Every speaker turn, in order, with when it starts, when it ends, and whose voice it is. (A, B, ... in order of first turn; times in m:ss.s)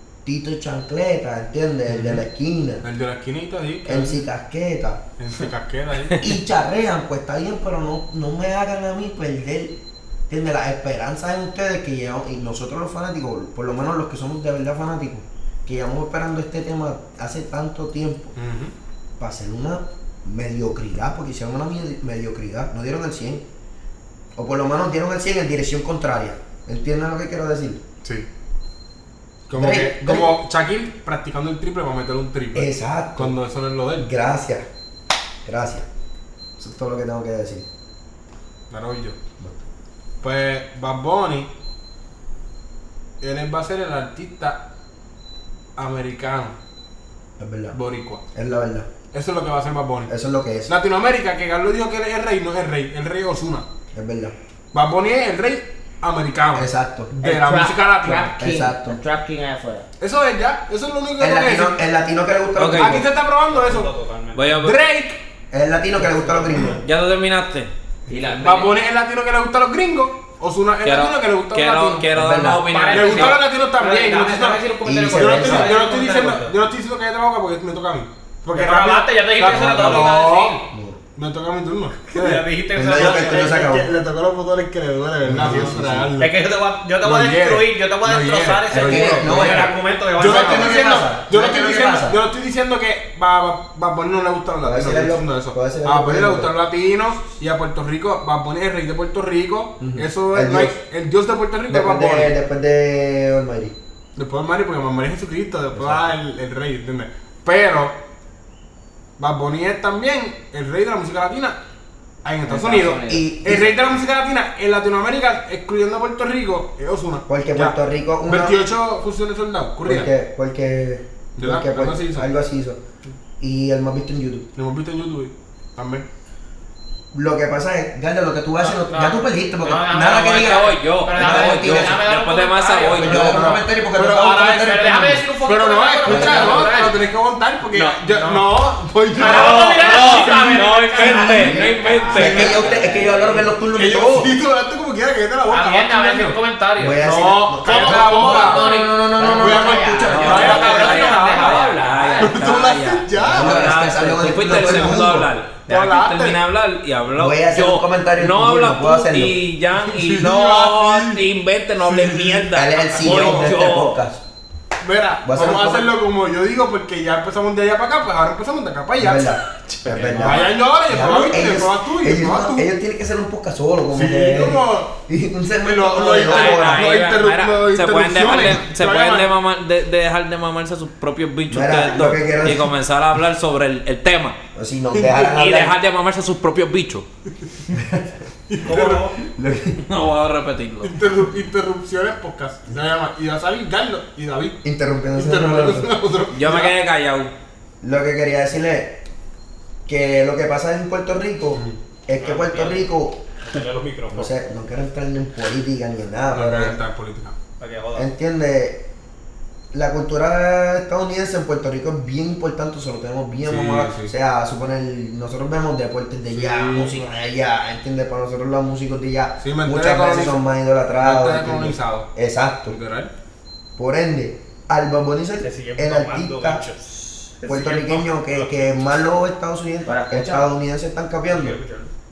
0:00.2-0:02.8 A
0:01.9-0:02.2 B
0:02.8-0:04.2 B
0:03.8-0:05.0 A
0:05.2-0:06.2 B
0:06.2-0:18.3 A
0:18.4-0:18.7 B
0:19.2-0:23.4 A
0:24.3-0:27.8 A
0:29.5-0:34.1 B
0:29.6-0:30.4 A
0:32.5-0:33.3 A
0:34.0-0:34.6 A
0:35.4-0:35.9 A
0:36.6-0:37.6 A
0:38.7-0:39.2 B
0:40.2-0:41.5 B
0:43.2-0:44.6 B
0:45.8-0:46.5 B
0:47.4-0:47.8 A
0:47.7-0:48.2 B
0:48.3-0:48.9 A
0:49.1-0:50.1 B
0:50.1-0:50.7 A
0:50.7-0:53.6 B
0:53.9-0:54.4 A
0:54.7-0:58.4 B
0:56.5-0:57.1 A
0:57.2-0:59.8 C
0:58.4-0:59.0 A
1:00.0-1:01.7 B
1:01.2-1:03.1 A
1:02.6-1:03.0 D
1:02.7-1:03.9 B
1:03.5-1:04.5 E
1:04.3-1:04.8 D
1:04.6-1:05.2 B
1:05.5-1:06.8 A
1:06.6-1:07.7 D
1:08.1-1:08.8 C
1:08.4-1:12.1 B
1:10.8-1:13.4 D
1:12.1-1:12.7 A
1:12.7-1:16.5 E
1:12.9-1:14.6 B
1:14.8-1:15.8 A
1:15.1-1:20.6 B
1:18.5-1:20.7 E
1:20.7-1:21.0 A
1:21.2-1:26.3 B
1:22.1-1:23.7 E
1:22.7-1:23.9 A
1:25.2-1:26.1 A
1:26.2-1:31.1 E
1:27.0-1:42.3 B
1:28.7-1:32.2 A
1:34.6-1:36.5 A
1:39.8-1:40.8 A
1:41.7-1:43.7 A
1:44.2-1:48.0 B
1:45.7-1:46.2 A
1:49.2-1:51.6 B
1:52.2-1:57.7 B
1:52.4-1:53.3 C
1:53.1-1:53.8 A
1:57.3-1:58.6 A
1:58.3-2:00.1 B
1:59.8-2:02.8 A
2:01.4-2:02.3 B
2:03.4-2:04.5 A
2:04.6-2:06.0 B
2:07.1-2:12.0 A
2:08.6-2:17.0 E
2:10.2-2:13.6 D
2:12.9-2:15.2 A
2:13.1-2:14.7 B
2:15.4-2:22.4 B
2:16.0-2:16.7 A
2:17.7-2:18.0 D
2:18.1-2:18.4 E
2:19.1-2:22.5 E
2:19.2-2:22.7 D
2:21.3-2:24.3 A
2:21.9-2:23.5 C
2:23.7-2:26.4 B
2:25.5-2:32.3 E
2:26.8-2:31.1 A
2:27.0-2:28.7 B
2:29.2-2:31.1 C
2:29.4-2:31.6 B
2:30.1-2:44.0 D
2:32.2-2:33.8 B
2:33.3-2:35.3 A
2:34.4-2:36.4 B
2:37.1-2:39.4 A
2:39.7-2:41.3 B
2:41.8-2:43.5 B
2:42.5-2:44.2 A
2:44.8-2:49.3 B
2:45.2-2:45.9 A
2:49.0-2:57.0 A
2:49.7-2:50.2 D
2:50.0-2:50.4 C
2:50.1-2:52.6 B
2:53.9-2:54.9 B
2:55.6-2:59.3 B
2:56.2-3:04.4 D
3:01.5-3:02.7 A
3:04.5-3:05.7 A
3:04.9-3:05.3 B
3:05.2-3:07.0 D
3:07.7-3:08.1 A
3:08.5-3:09.1 B
3:08.6-3:09.2 E
3:09.2-3:09.8 A
3:09.8-3:11.0 D
3:10.8-3:14.6 B
3:14.6-3:15.9 A
3:15.1-3:16.8 B
3:16.3-3:17.3 D
3:17.8-3:19.0 A
3:19.9-3:23.2 A
3:22.2-3:22.9 E
3:23.4-3:24.3 E
3:24.1-3:26.8 A
3:26.3-3:27.4 B
3:27.6-3:28.1 E
3:27.9-3:28.8 A
3:29.7-3:42.8 A
3:33.4-3:34.1 B
3:36.3-3:37.0 B
3:39.4-3:40.4 B
3:41.0-3:42.1 B
3:42.7-3:43.1 B
3:43.8-3:46.6 A
3:45.4-3:48.7 E
3:47.4-3:51.6 A
3:49.8-3:50.5 C
3:51.3-3:51.9 E